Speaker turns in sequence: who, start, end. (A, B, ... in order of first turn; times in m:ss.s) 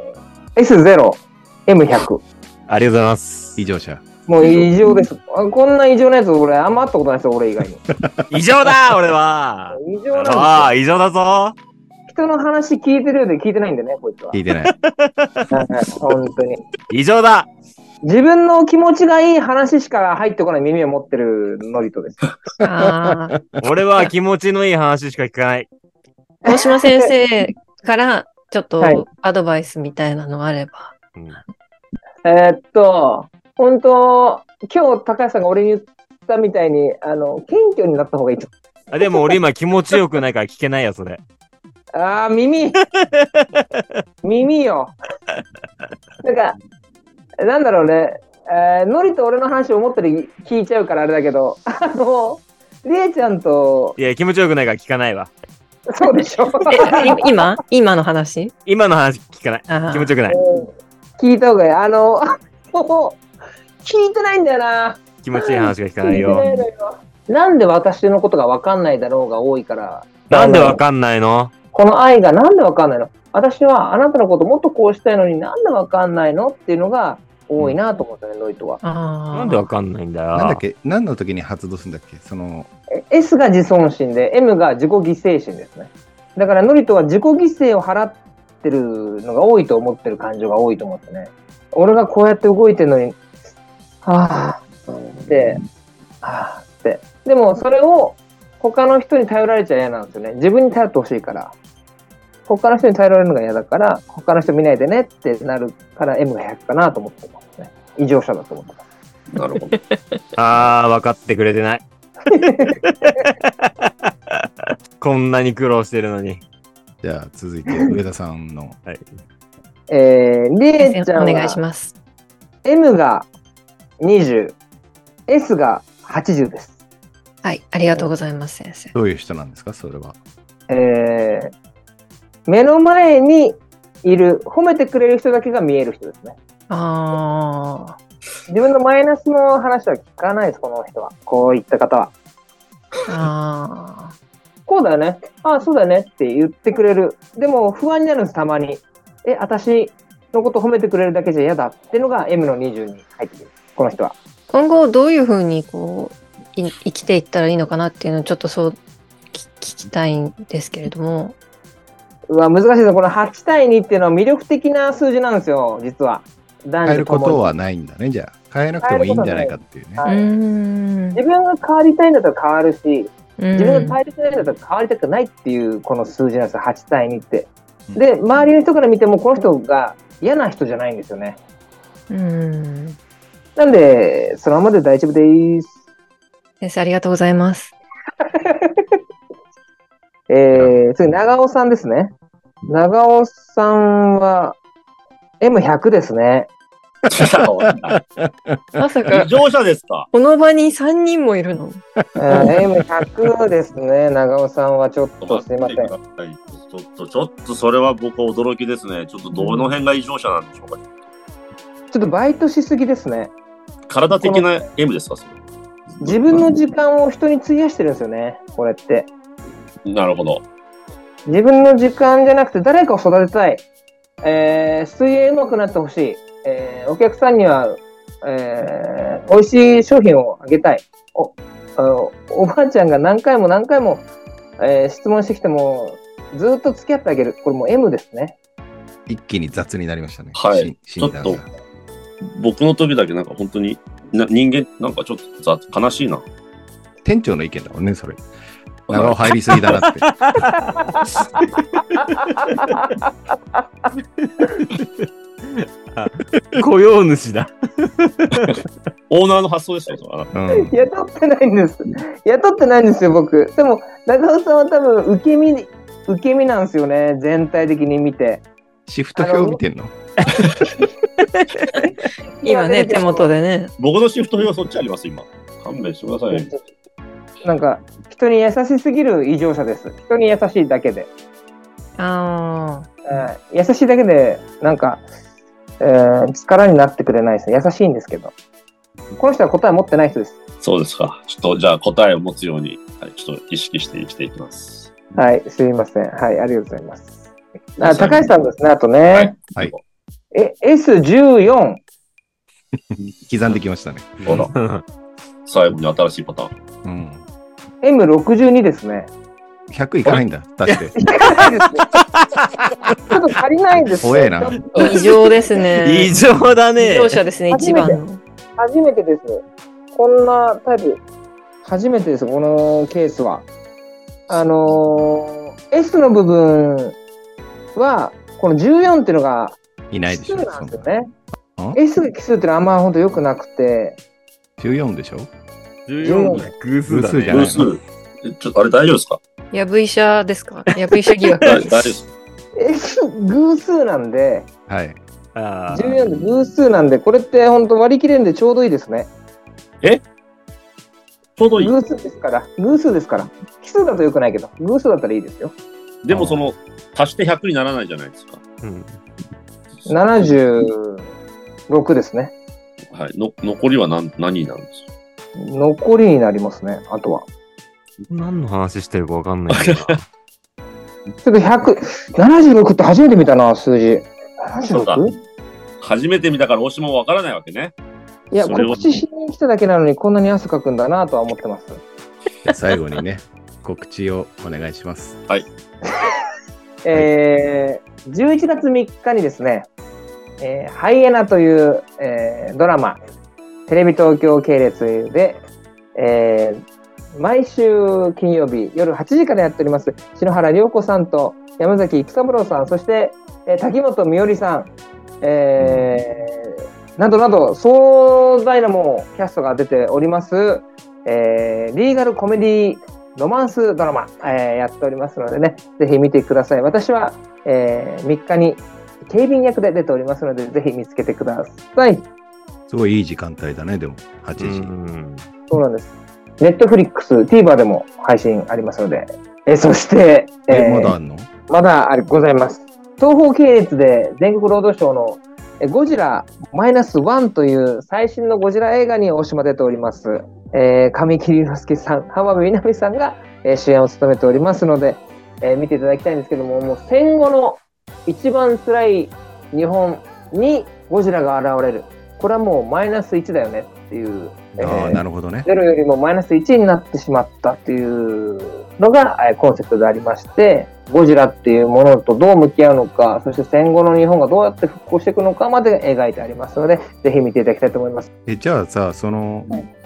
0:00.6-0:02.2 A
0:02.7-0:03.6 B
0:03.6-0:04.0 C
0:04.3-0:07.8 A
0:07.9-0:08.3 C
0:08.3-0:11.6 B
0:09.7-0:10.7 A
0:12.1-0:14.4 A
0:14.3-0:14.7 C
0:14.6-0:15.5 B
0:15.5-0:16.6 A
0:16.9-0:17.5 B
0:18.0-0:22.2 A
0:22.6-0:23.4 D
0:23.6-0:25.7 B
0:26.4-0:31.0 D
0:26.4-0:27.1 A
0:28.8-0:29.0 A
0:31.2-0:31.4 B
0:32.2-0:38.5 A
0:38.9-0:41.2 B
0:41.9-0:42.8 A
0:42.9-0:43.8 B
0:44.2-0:44.9 A
0:46.2-0:46.6 A
0:47.4-0:54.0 A
0:54.0-0:55.3 B
0:55.9-0:57.4 A
0:56.7-0:58.5 D
0:58.7-1:00.4 B
0:59.7-1:00.1 D
1:00.3-1:03.2 A
1:03.8-1:10.8 A
1:05.2-1:06.4 B
1:06.1-1:06.6 D
1:10.3-1:11.5 B
1:11.7-1:18.8 A
1:18.8-1:19.7 D
1:19.3-1:20.6 B
1:20.4-1:22.7 C
1:23.1-1:33.2 A
1:34.0-1:34.6 A
1:35.2-1:35.6 A
1:36.2-1:41.5 A
1:42.5-1:48.8 A
1:49.3-1:49.8 E
1:49.7-1:50.0 D
1:50.4-1:51.8 B
1:52.3-1:52.8 A
1:52.8-1:56.4 B
1:57.0-1:58.8 C
1:59.9-2:01.6 A
2:00.8-2:01.9 D
2:02.6-2:03.3 A
2:04.0-2:04.6 A
2:05.3-2:06.7 A
2:07.4-2:08.9 D
2:08.9-2:10.2 C
2:10.7-2:11.5 A
2:12.5-2:16.4 A
2:16.7-2:18.0 D
2:18.5-2:22.1 A
2:23.1-2:24.1 D
2:24.6-2:34.1 A
2:34.5-2:38.8 D
2:39.3-2:41.4 D
2:42.3-2:47.5 A
2:46.9-2:50.0 C
2:48.8-2:50.3 A
2:50.0-2:51.2 D
2:51.1-3:01.4 A
2:53.4-2:54.0 D
3:02.1-3:03.0 D
3:03.6-3:05.7 A
3:06.6-3:07.8 D
3:08.3-3:08.9 A
3:10.3-3:12.1 A
3:12.7-3:14.6 A
3:15.4-3:16.5 A
3:17.1-3:18.0 E
3:17.1-3:18.8 C
3:18.8-3:19.3 D
3:19.1-3:20.1 E
3:20.1-3:21.8 D
3:22.2-3:25.9 A
3:25.2-3:30.8 E
3:29.4-3:29.7 D
3:31.9-3:33.3 A
3:33.9-3:35.4 E
3:34.1-3:34.5 A
3:36.0-3:36.4 E
3:36.0-3:39.1 A
3:39.9-3:40.4 E
3:41.3-3:43.6 A
3:44.2-3:54.0 A
3:54.6-3:58.4 A
3:59.1-4:01.5 C
4:00.4-4:01.4 E
4:02.2-4:06.3 E
4:07.0-4:08.2 C
4:08.9-4:09.8 E
4:08.9-4:10.1 C
4:09.8-4:12.8 B
4:12.2-4:13.0 A
4:14.2-4:18.6 B
4:18.5-4:20.3 E
4:20.3-4:20.8 C
4:20.5-4:28.4 A
4:28.9-4:29.9 C
4:29.2-4:29.6 A
4:30.4-4:30.7 B
4:31.4-4:33.7 D
4:32.4-4:33.3 A
4:33.8-4:36.5 E
4:36.3-4:36.6 A
4:37.4-4:41.1 A
4:42.0-4:42.9 D
4:43.1-4:45.0 A
4:45.8-4:48.3 A
4:49.2-4:50.4 A
4:50.6-4:54.9 E
4:55.1-4:57.1 A
4:57.8-4:59.4 A
4:57.8-4:58.4 E
4:59.1-4:59.8 E
5:00.3-5:01.8 A
5:02.9-5:04.5 C
5:04.2-5:04.8 B
5:04.3-5:04.5 E
5:05.4-5:06.5 E
5:06.8-5:07.2 C
5:07.8-5:09.1 A
5:09.7-5:11.0 C
5:10.9-5:11.9 A
5:11.4-5:13.0 B
5:13.1-5:15.2 A
5:14.0-5:14.6 C
5:14.8-5:16.1 D
5:15.8-5:17.2 B
5:16.8-5:18.2 D
5:17.5-5:18.0 A
5:18.6-5:21.0 A
5:21.6-5:23.4 A
5:24.3-5:27.0 A
5:27.8-5:31.1 A
5:29.9-5:30.9 C
5:31.8-5:34.0 A
5:34.6-5:35.3 C
5:35.9-5:37.6 B
5:36.0-5:36.5 A
5:36.9-5:37.8 C
5:37.3-5:39.2 E
5:39.5-5:41.9 D
5:41.4-5:42.1 E
5:42.6-5:44.5 A
5:44.7-5:45.0 C
5:45.4-5:46.0 B
5:45.7-5:49.1 A
5:51.4-5:51.7 E
5:51.6-5:55.6 A
5:56.0-5:58.4 E
5:56.1-5:56.4 C
5:58.6-5:59.0 B
5:59.9-6:01.1 A
6:01.7-6:02.3 A
6:02.9-6:04.9 E
6:05.4-6:07.2 A
6:08.1-6:10.0 B
6:09.5-6:10.0 E
6:11.2-6:15.1 A
6:14.7-6:15.1 E
6:15.8-6:17.8 E
6:18.3-6:21.8 A
6:18.4-6:19.0 E
6:22.4-6:25.2 C
6:26.8-6:29.7 A
6:30.4-6:33.0 A
6:33.7-6:35.4 A
6:36.0-6:36.6 A
6:37.2-6:44.7 A
6:45.2-7:02.1 A
7:02.7-7:04.7 C
7:04.4-7:05.3 B
7:05.5-7:10.9 A
7:10.5-7:11.3 C
7:11.5-7:48.1 A
7:34.6-7:35.5 C
7:48.3-7:49.5 C